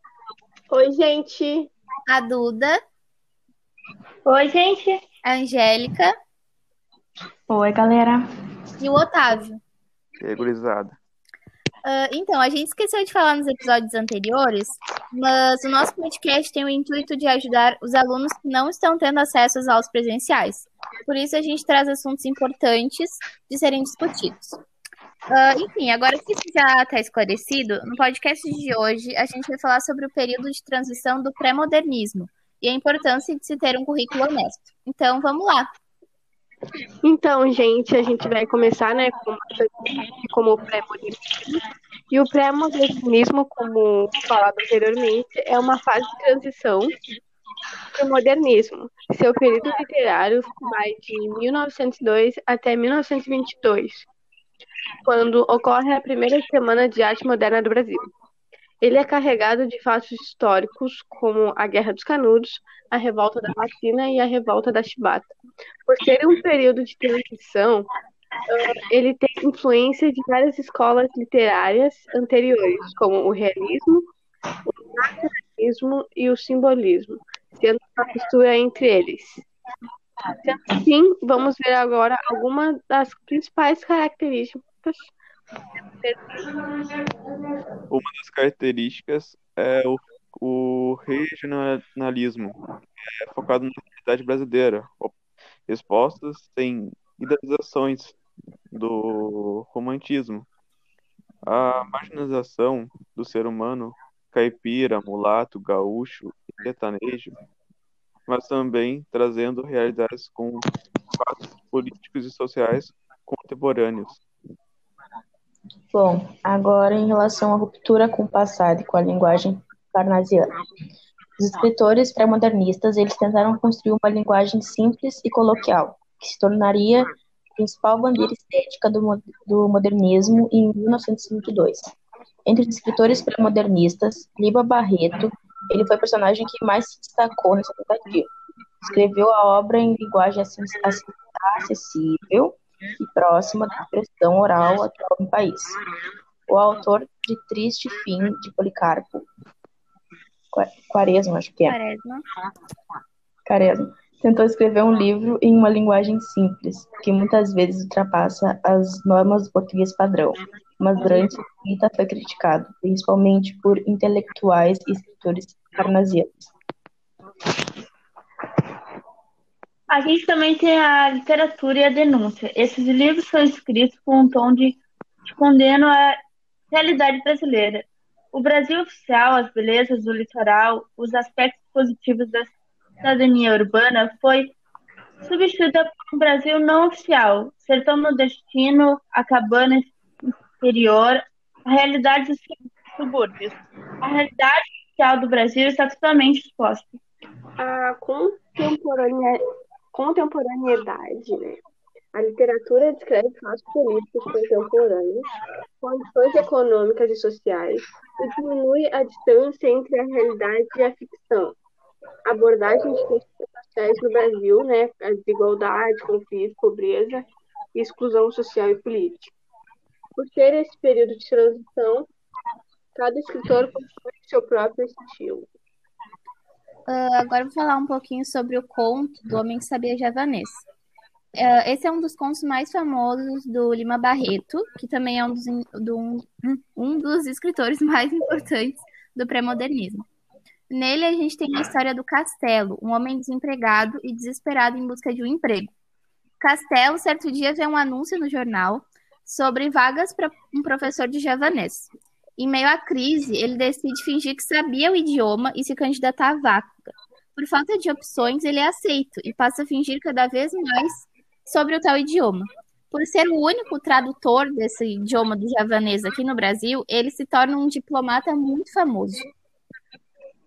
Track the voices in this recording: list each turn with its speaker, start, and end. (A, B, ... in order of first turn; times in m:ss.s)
0:00.7-0:01.7 A
0:02.1-0:02.8 B
0:04.2-0:05.0 C
0:05.2-0:06.1 B
0:07.5-0:08.2 D
0:08.8-0:09.6 B
0:10.2-0:11.0 E
0:11.8-0:24.6 B
0:25.3-0:35.7 B
0:37.0-0:41.3 A
0:42.1-0:46.9 A
0:48.0-0:54.1 A
0:55.0-0:58.1 A
0:58.8-1:05.3 A
1:05.9-1:07.9 A
1:08.5-1:14.1 A
1:14.7-1:19.4 A
1:20.4-1:25.1 A
1:26.0-1:26.2 A
1:27.9-1:38.2 E
1:38.7-1:40.5 E
1:41.4-1:47.4 E
1:48.3-1:54.2 E
1:55.9-2:00.4 D
2:01.4-2:11.9 D
2:12.4-2:18.3 D
2:18.8-2:25.8 D
2:26.5-2:29.3 D
2:30.5-2:31.8 D
2:31.7-2:32.2 B
2:33.5-2:46.3 D
2:49.9-2:56.1 C
2:56.7-3:04.5 C
3:05.2-3:09.9 C
3:10.5-3:17.0 C
3:17.6-3:19.4 A
3:19.9-3:21.6 A
3:22.1-3:25.2 A
3:25.8-3:31.6 A
3:32.3-3:39.3 A
3:40.2-3:42.1 A
3:42.9-3:45.5 A
3:46.9-3:50.6 B
3:51.4-4:00.0 B
4:00.7-4:05.7 B
4:06.4-4:29.3 B